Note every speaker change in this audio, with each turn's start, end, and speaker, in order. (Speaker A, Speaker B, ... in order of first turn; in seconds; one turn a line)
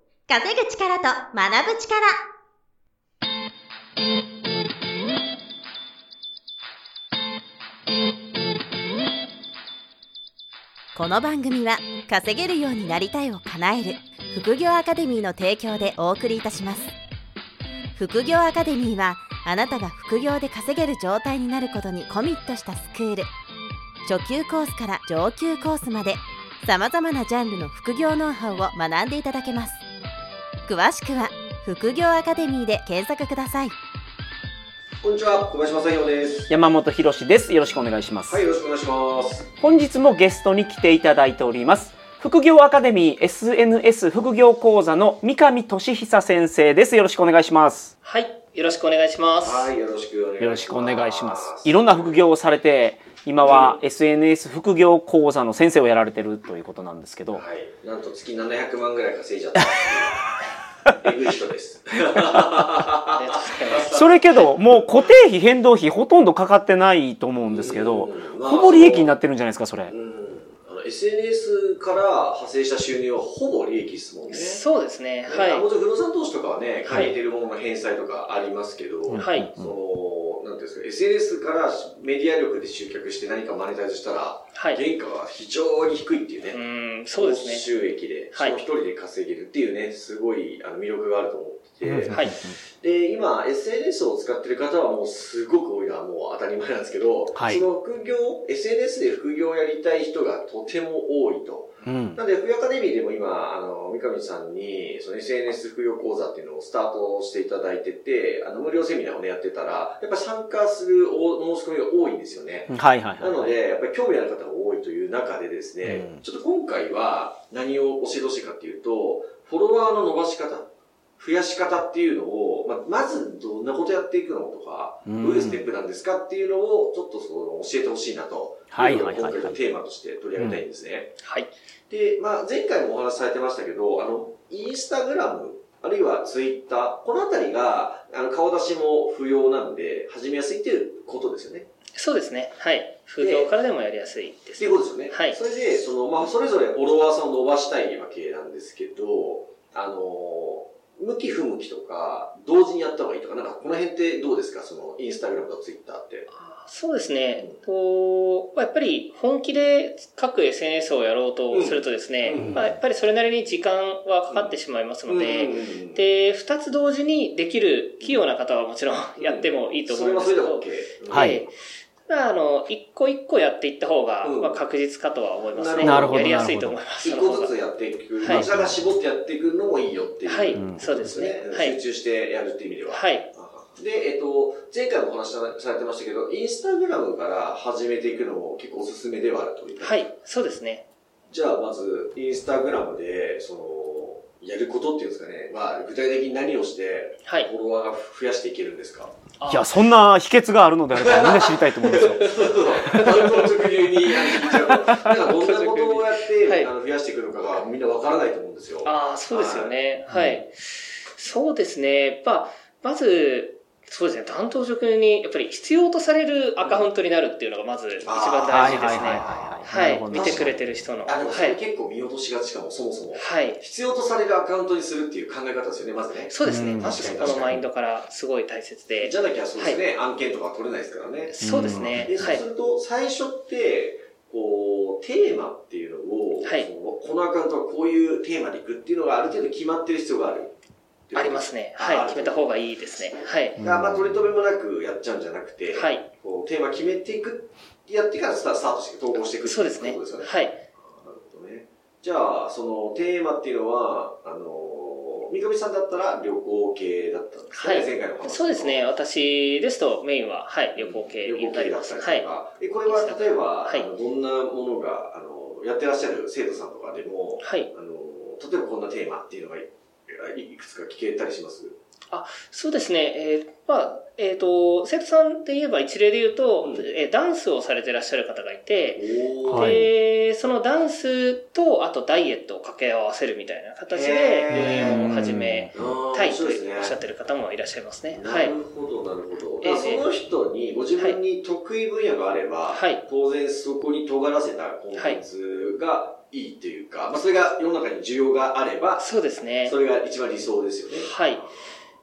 Speaker A: 0.3-2.2
Speaker A: 10.9-16.9
Speaker A: 18.0-23.3
Speaker A: 24.1-29.8
Speaker A: 30.7-33.7
Speaker B: 35.0-36.5
Speaker C: 36.5-38.4
Speaker B: 38.3-39.5
Speaker C: 39.6-47.9
Speaker D: 48.0-49.7
Speaker B: 49.4-52.2
Speaker C: 50.4-57.4
Speaker B: 53.4-53.8
Speaker B: 57.3-60.3
Speaker B: 60.9-64.1
Speaker D: 63.1-64.2
Speaker C: 63.9-69.9
Speaker B: 67.5-69.2
Speaker B: 69.9-74.6
Speaker D: 74.3-75.7
Speaker B: 75.3-86.6
Speaker C: 76.9-77.1
Speaker C: 79.1-79.8
Speaker D: 79.2-79.5
Speaker D: 84.5-84.8
Speaker D: 86.5-87.7
Speaker B: 87.1-131.2
Speaker C: 91.8-92.6
Speaker D: 92.1-92.4
Speaker C: 97.3-97.6
Speaker C: 101.8-102.2
Speaker C: 112.7-113.5
Speaker C: 115.8-116.2
Speaker C: 125.1-125.7
Speaker C: 128.7-129.6
Speaker C: 130.4-130.6
Speaker D: 131.2-131.5
Speaker B: 131.9-141.7
Speaker D: 141.9-145.4
Speaker B: 143.2-143.5
Speaker B: 144.6-156.3
Speaker D: 156.3-171.6
Speaker B: 161.5-162.7
Speaker C: 162.3-162.7
Speaker B: 165.1-166.0
Speaker B: 169.2-171.4
Speaker C: 171.1-171.4
Speaker D: 172.1-177.6
Speaker B: 174.2-174.6
Speaker B: 175.5-176.4
Speaker C: 175.8-176.8
Speaker B: 177.0-190.1
Speaker D: 178.2-178.5
Speaker C: 178.3-178.8
Speaker D: 180.3-181.8
Speaker C: 180.6-181.1
Speaker D: 182.9-183.3
Speaker D: 189.8-190.9
Speaker B: 191.3-199.1
Speaker D: 199.4-199.7
Speaker C: 199.5-203.3
Speaker B: 200.9-209.7
Speaker D: 204.4-206.7
Speaker D: 208.8-221.6
Speaker C: 210.1-210.4
Speaker B: 216.6-216.9
Speaker B: 218.0-227.6
Speaker C: 218.5-220.5
Speaker D: 223.2-223.6
Speaker D: 226.3-229.8
Speaker C: 226.5-227.6
Speaker B: 229.0-240.5
Speaker D: 231.3-232.4
Speaker C: 231.4-232.2
Speaker D: 236.4-236.7
Speaker B: 241.1-242.4
Speaker D: 241.2-243.6
Speaker B: 243.6-258.8
Speaker C: 243.6-244.2
Speaker D: 245.7-246.1
Speaker D: 249.4-250.6
Speaker D: 257.5-262.3
Speaker B: 260.8-271.8
Speaker D: 262.9-263.9
Speaker D: 267.4-267.7
Speaker D: 272.1-288.5
Speaker B: 276.6-276.9
Speaker B: 279.0-279.8
Speaker C: 279.5-279.9
Speaker B: 283.9-285.1
Speaker C: 284.5-285.7
Speaker B: 285.7-287.0
Speaker B: 288.1-299.1
Speaker D: 289.6-290.1
Speaker D: 292.7-293.1
Speaker D: 294.9-295.2
Speaker D: 299.0-299.8
Speaker B: 299.6-301.8
Speaker D: 301.0-301.5